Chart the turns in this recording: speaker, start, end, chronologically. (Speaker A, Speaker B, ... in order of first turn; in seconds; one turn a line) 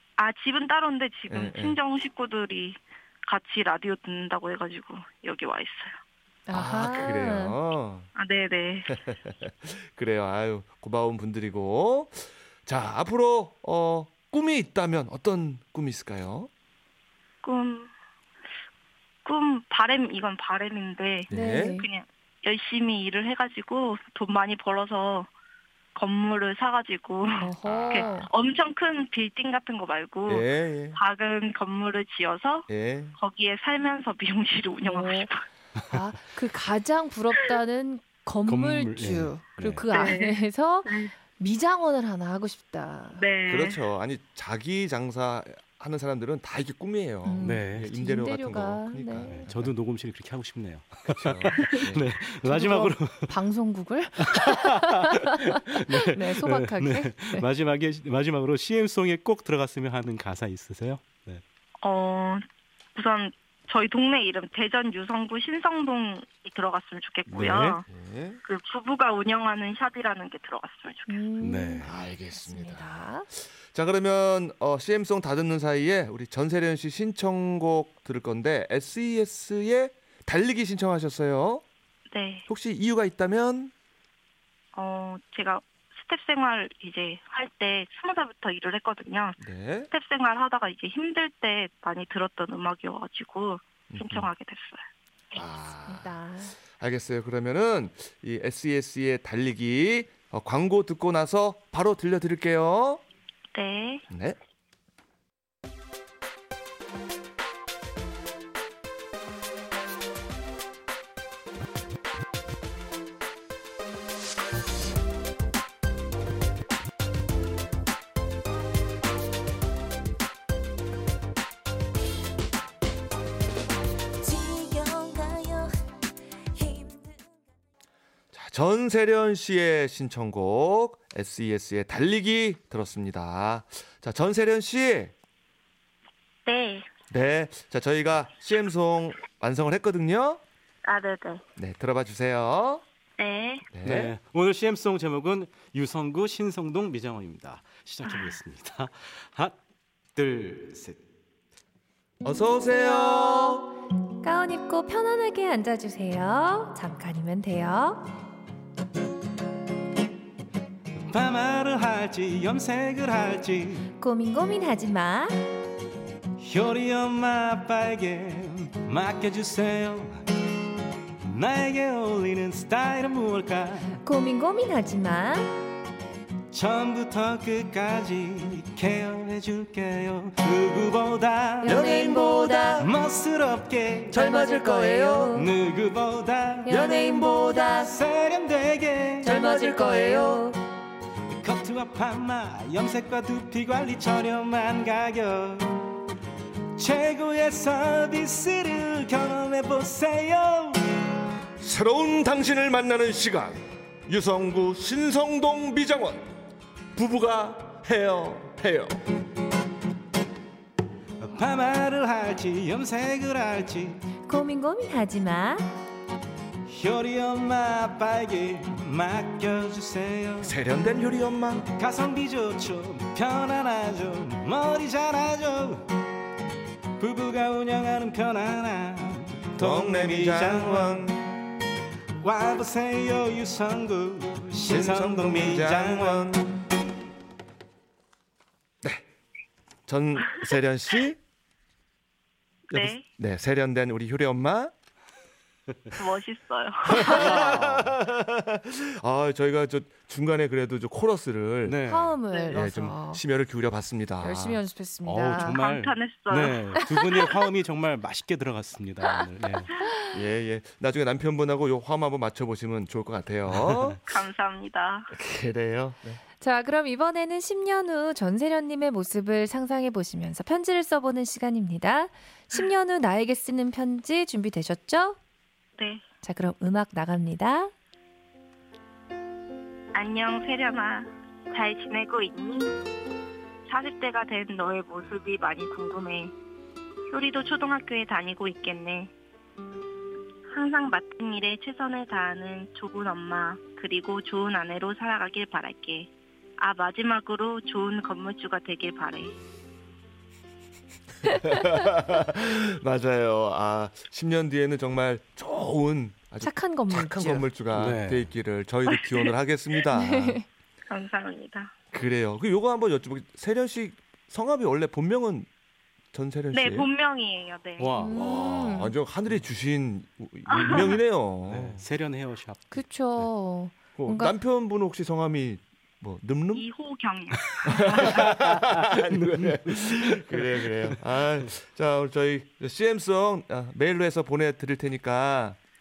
Speaker A: 0.2-6.0
Speaker B: 1.3-1.8
Speaker C: 6.5-7.6
Speaker B: 6.5-8.1
Speaker A: 8.2-9.0
Speaker B: 8.9-16.5
Speaker A: 17.4-17.9
Speaker A: 19.2-25.3
Speaker B: 21.3-21.8
Speaker C: 21.3-21.9
Speaker A: 25.9-35.4
Speaker C: 27.4-28.3
Speaker B: 27.6-28.1
Speaker B: 30.3-31.0
Speaker B: 32.7-33.2
Speaker C: 34.9-35.3
Speaker C: 35.9-43.2
Speaker D: 38.5-39.9
Speaker A: 39.9-41.1
Speaker A: 43.1-43.8
Speaker B: 43.5-49.7
Speaker C: 47.2-49.5
Speaker D: 47.4-47.9
Speaker D: 49.2-53.4
Speaker B: 51.1-52.0
Speaker C: 52.4-57.5
Speaker D: 54.2-61.4
Speaker A: 61.8-62.4
Speaker A: 63.0-67.8
Speaker D: 67.3-67.8
Speaker B: 67.9-68.4
Speaker A: 68.5-71.2
Speaker C: 71.1-73.3
Speaker D: 71.4-72.0
Speaker B: 71.8-81.6
Speaker A: 82.1-82.5
Speaker B: 82.5-83.7
Speaker A: 84.8-89.4
Speaker B: 89.4-89.9
Speaker A: 89.9-94.8
Speaker B: 93.9-94.3
Speaker B: 95.3-103.0
Speaker C: 95.9-96.6
Speaker A: 103.5-104.0
Speaker B: 104.1-104.4
Speaker E: 124.2-125.8
Speaker E: 126.5-127.5
Speaker B: 128.3-135.1
Speaker A: 136.5-136.9
Speaker B: 137.1-140.4
Speaker A: 140.8-141.4
Speaker B: 141.6-142.8
Speaker A: 143.2-143.7
Speaker B: 143.7-144.1
Speaker D: 143.8-149.6
Speaker A: 148.1-148.3
Speaker D: 150.2-151.0
Speaker B: 152.2-153.7
Speaker C: 152.7-153.7
Speaker C: 154.2-158.1
Speaker D: 161.1-163.9
Speaker C: 164.0-165.4
Speaker D: 166.4-170.2
Speaker D: 171.2-174.0
Speaker C: 174.0-175.5
Speaker D: 176.5-181.9
Speaker C: 181.6-182.8
Speaker B: 181.7-182.9
Speaker D: 182.8-184.2
Speaker B: 184.1-185.4
Speaker C: 184.1-185.5
Speaker D: 185.3-186.8
Speaker C: 186.7-188.0
Speaker B: 186.7-187.8
Speaker D: 187.7-189.4
Speaker C: 189.2-190.6
Speaker B: 189.2-190.5
Speaker D: 191.3-195.9
Speaker D: 196.8-201.1
Speaker B: 201.6-206.3
Speaker B: 206.9-208.9
Speaker D: 211.2-214.0
Speaker C: 214.3-215.7
Speaker D: 216.7-220.6
Speaker B: 220.4-221.7
Speaker D: 221.7-225.8
Speaker D: 227.0-231.2
Speaker B: 229.6-231.2
Speaker D: 232.2-236.5
Speaker B: 234.7-236.5
Speaker B: 239.9-241.2
Speaker A: 242.7-243.1
Speaker B: 242.7-244.7
Speaker A: 245.9-247.4
Speaker B: 246.9-251.8
Speaker D: 247.0-247.9
Speaker D: 251.7-252.2
Speaker C: 251.9-253.2
Speaker B: 252.5-254.6
Speaker C: 254.2-255.6
Speaker D: 255.1-259.7
Speaker A: 255.6-257.0
Speaker B: 260.1-264.0
Speaker A: 264.1-265.1
Speaker B: 265.1-266.2
Speaker C: 266.4-275.2
Speaker A: 275.8-276.0
Speaker C: 276.2-277.7
Speaker A: 279.9-282.8
Speaker A: 283.7-286.3
Speaker A: 287.1-289.1
Speaker A: 290.5-299.4
Speaker B: 301.3-310.4
Speaker C: 306.4-307.5
Speaker D: 307.7-308.3
Speaker A: 308.9-309.3
Speaker C: 310.0-310.4
Speaker A: 310.9-311.7
Speaker B: 311.9-315.5
Speaker B: 316.1-316.9
Speaker A: 316.5-317.9
Speaker D: 317.8-318.2
Speaker C: 318.0-318.9
Speaker B: 318.1-321.8
Speaker A: 320.5-321.0
Speaker D: 321.4-322.8
Speaker C: 322.7-324.4
Speaker B: 324.0-326.7
Speaker A: 326.5-328.2
Speaker B: 327.7-335.6
Speaker D: 327.9-331.5